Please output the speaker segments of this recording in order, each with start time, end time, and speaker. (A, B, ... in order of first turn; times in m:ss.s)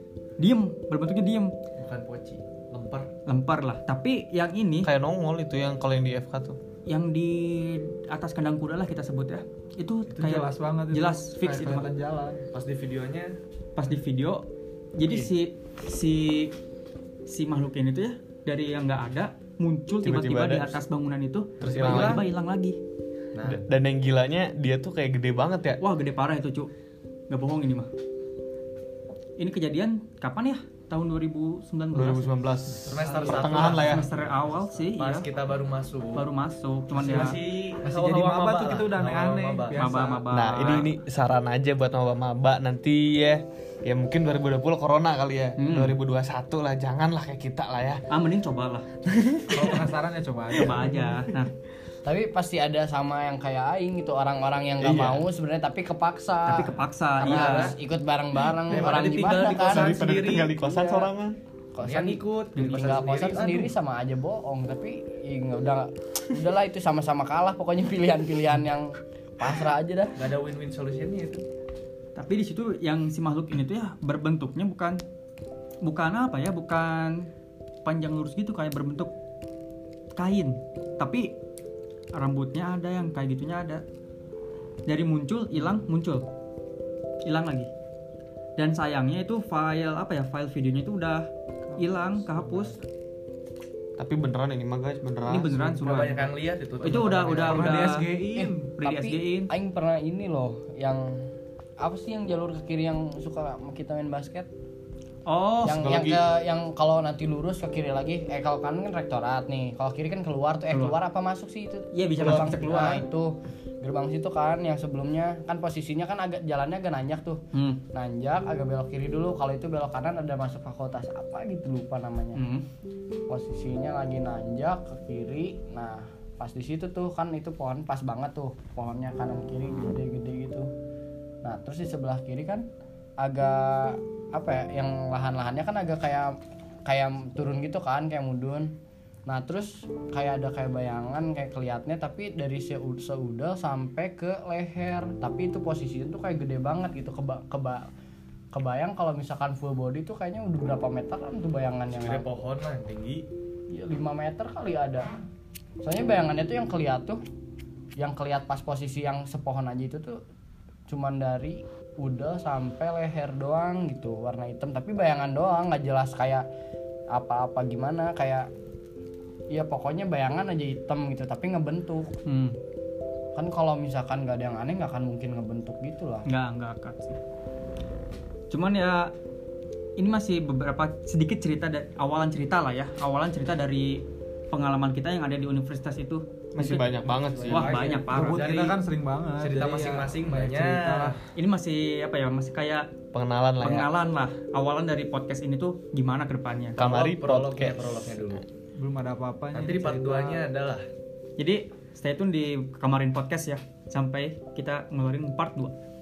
0:00.4-0:01.5 A
0:01.8-0:03.1 B
0:03.3-0:04.9 A
0:04.8-0:06.6 C
0:06.9-0:11.9 A
0:10.2-0:12.4 D
0:12.5-0:13.4 B
0:13.8-0:16.6 A
0:17.3-0:22.8 A
0:20.0-0:20.8 C
0:21.6-0:22.2 C
0:21.6-0:22.2 B
0:23.4-0:23.7 B
0:23.4-0:25.8 C
0:25.8-0:26.7 A
0:27.3-0:27.9 A
0:29.4-0:32.3 A
0:31.9-0:34.0 C
0:32.8-0:36.2 B
0:33.0-0:35.3 A
0:36.1-0:37.4 A
0:36.9-0:40.2 B
0:37.8-0:40.2 D
0:39.8-0:40.9 A
0:40.3-0:48.0 C
0:45.6-0:46.0 A
0:48.1-0:48.9 A
0:49.1-0:49.8 C
0:49.5-0:50.8 D
0:50.6-0:51.5 A
0:52.0-1:01.1 E
0:54.8-0:55.2 C
0:56.5-0:57.7 A
0:57.2-0:57.7 B
0:58.6-1:00.6 B
0:59.6-1:01.4 C
1:01.7-1:10.2 E
1:01.8-1:03.7 B
1:10.2-1:11.4 B
1:12.2-1:15.0 A
1:15.8-1:17.3 A
1:17.8-1:19.1 A
1:20.2-1:21.4 A
1:22.1-1:23.8 A
1:24.9-1:26.3 A
1:27.2-1:27.7 A
1:28.6-1:32.8 A
1:31.8-1:32.5 D
1:34.0-1:35.7 C
1:35.3-1:38.1 A
1:35.8-1:37.9 B
1:35.8-1:36.1 D
1:37.4-1:38.8 D
1:38.3-1:44.5 E
1:38.8-1:39.5 A
1:45.3-1:45.8 A
1:45.6-1:57.4 E
1:45.7-1:46.2 C
1:50.7-1:51.0 A
1:51.9-1:53.1 A
1:57.5-1:57.8 A
1:57.9-2:02.4 E
2:02.4-2:02.6 A
2:03.3-2:10.7 E
2:11.4-2:12.6 E
2:13.2-2:16.3 E
2:16.9-2:18.7 E
2:19.3-2:27.8 E
2:28.5-2:32.3 E
2:31.9-2:33.3 B
2:33.7-2:35.1 E
2:35.8-2:37.2 E
2:38.0-2:40.2 E
2:40.9-2:46.4 E
2:47.1-2:48.5 E
2:49.5-2:52.1 E
2:52.3-2:52.6 A
2:53.4-2:56.3 E
2:56.3-2:57.2 A
2:58.5-2:59.1 A
3:00.0-3:06.8 A
3:06.6-3:07.7 C
3:07.3-3:08.0 E
3:07.5-3:08.6 A
3:07.6-3:11.2 D
3:08.2-3:08.8 B
3:09.4-3:11.2 B
3:11.4-3:12.9 A
3:13.1-3:13.9 C
3:13.6-3:16.8 A
3:16.8-3:18.0 C
3:16.8-3:18.4 B
3:18.8-3:20.5 D
3:19.5-3:20.8 B
3:21.4-3:25.8 A